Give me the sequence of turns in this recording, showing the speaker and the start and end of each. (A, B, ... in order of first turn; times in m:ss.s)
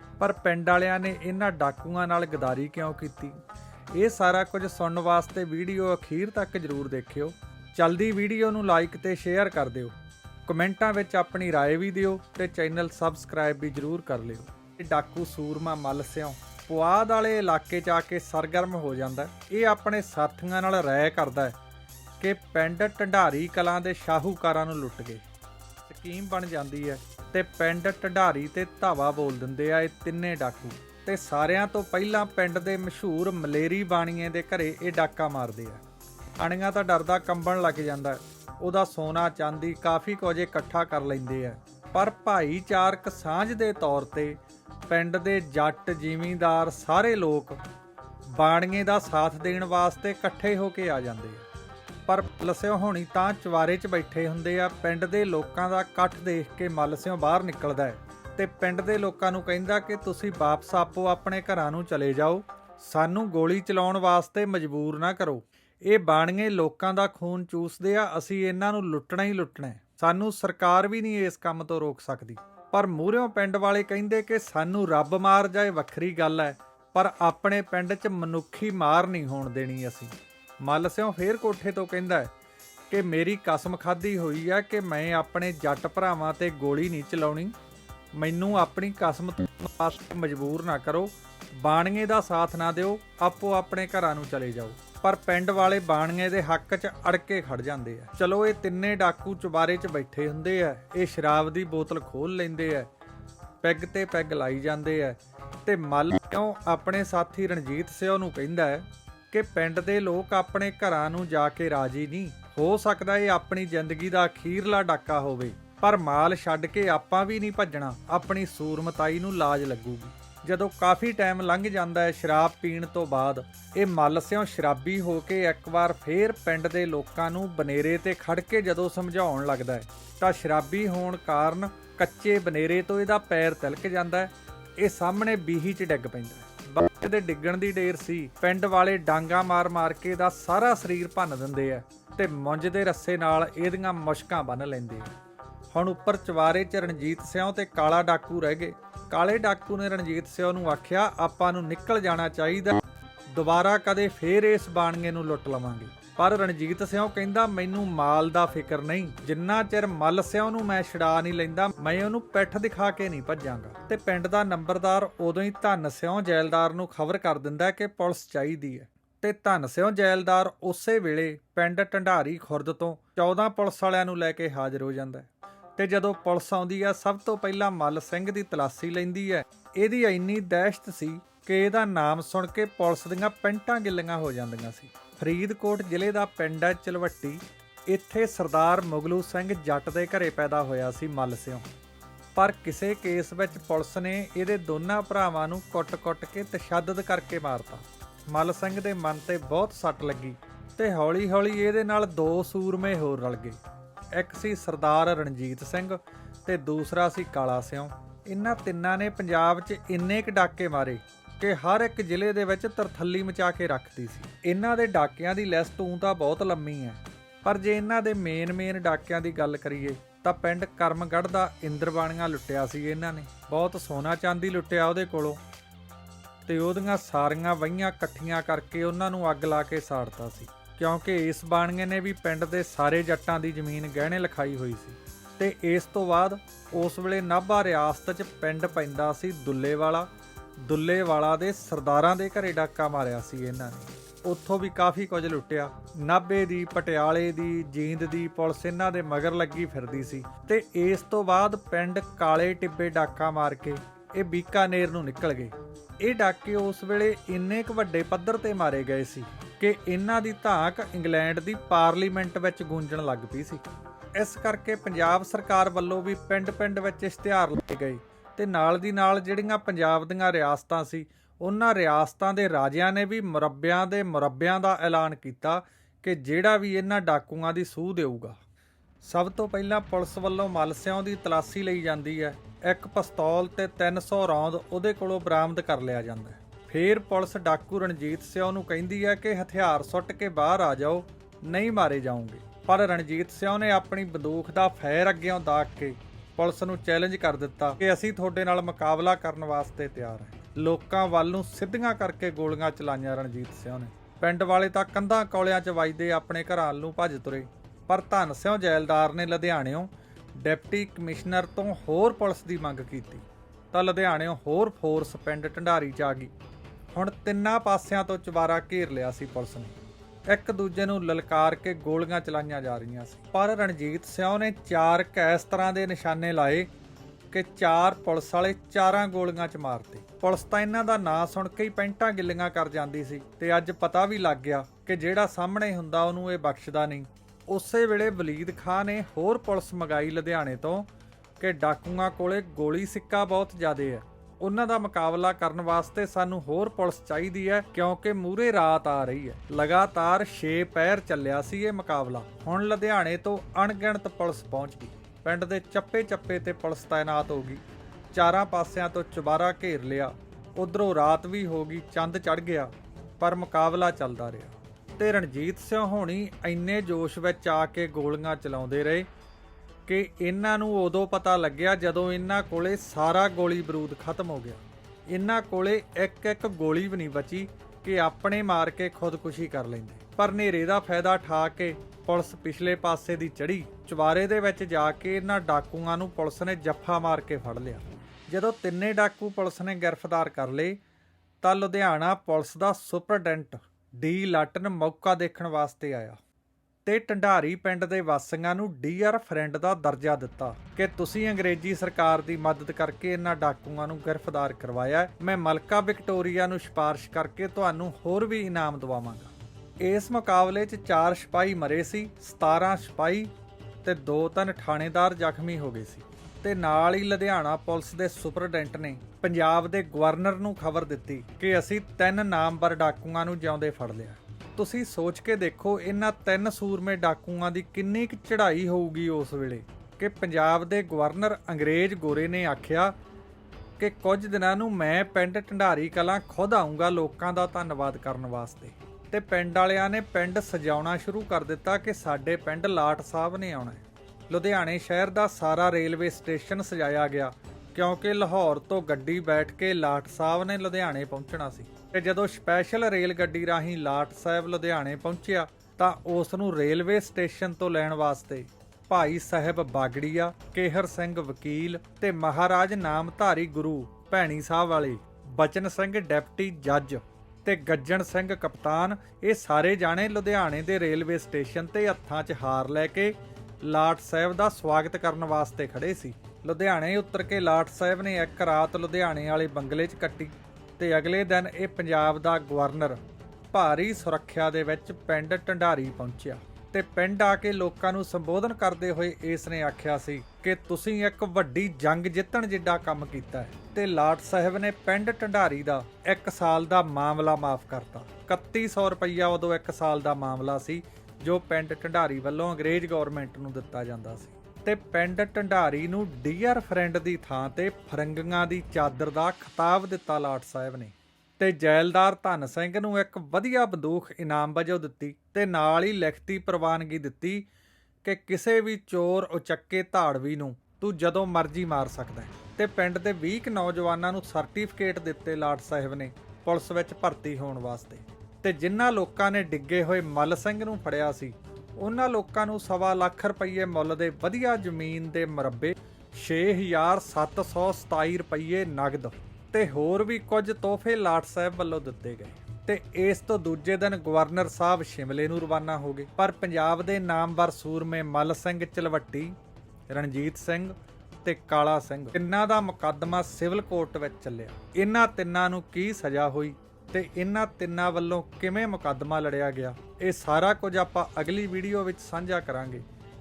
0:00.2-0:03.4 A
0:04.0-0:09.9 A
0:10.5-0:21.6 A
0:22.2-0:25.2 A
0:25.9-0:35.8 A
0:36.4-0:47.6 A
0:48.3-0:51.4 A
0:52.1-1:22.3 A
1:22.9-1:27.5 A
1:28.2-1:42.9 A
1:43.6-2:25.1 A
2:25.7-2:32.8 A
2:33.3-3:11.6 A
3:12.3-3:23.6 A
3:24.1-3:45.4 A
3:46.4-4:00.1 A
4:00.6-4:23.6 A
4:24.2-4:38.4 A
4:39.0-5:16.3 A
5:16.9-5:19.8 A
5:20.3-5:26.7 A
5:27.3-5:40.9 A
5:41.4-5:57.6 A
5:58.1-6:09.1 A
6:09.8-6:30.8 A
6:31.4-6:36.2 A
6:36.8-6:53.3 A
6:53.8-7:12.9 A
7:13.8-8:03.0 A
8:03.5-8:37.5 A
8:38.0-9:09.3 A
9:09.9-9:22.8 A